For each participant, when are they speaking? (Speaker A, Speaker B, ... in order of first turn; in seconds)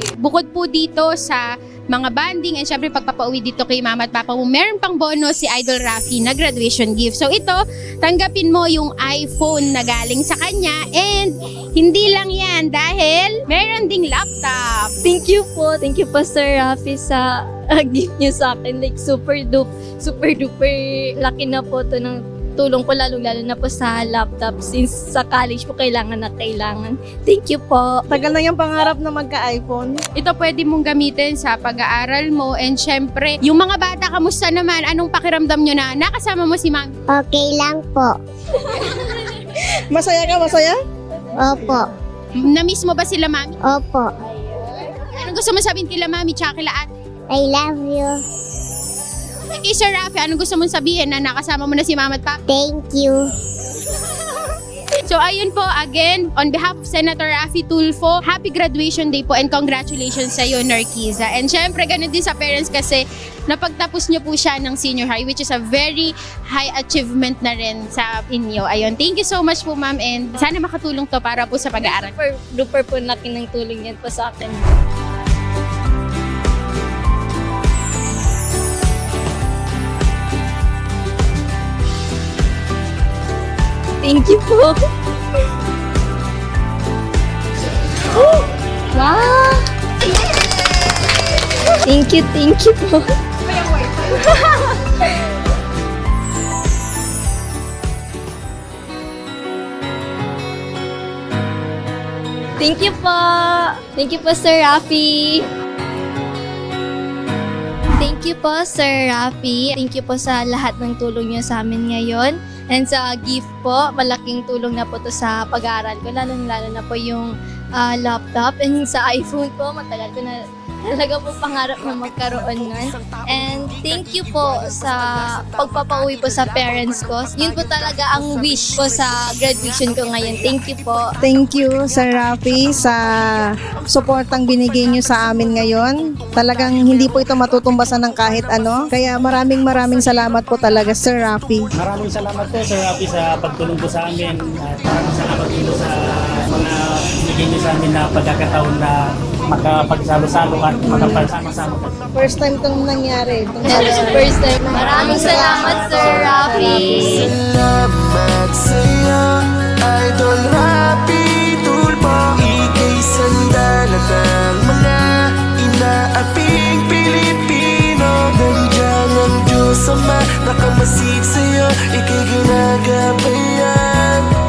Speaker A: 0.2-14.9, 30.2-36.9, 42.4-43.6, 44.7-46.9, 49.4-52.4, 54.2-54.5, 55.1-72.1
Speaker B: 15.0-28.1, 71.8-74.7, 84.0-84.8, 88.1-89.7, 91.8-95.0, 102.6-105.5, 108.0-131.1, 153.6-157.3
Speaker C: 28.1-30.0, 38.8-40.8, 131.2-133.2, 133.9-141.6, 150.9-151.2, 152.1-154.3, 156.2-156.9
Speaker D: 37.1-38.2, 41.4-41.9, 43.6-44.1, 47.3-48.2, 52.5-53.2
Speaker E: 121.6-131.1, 135.3-135.6, 136.3-138.9, 156.0-156.3, 156.9-174.3
Speaker F: 141.8-152.0, 153.7-156.7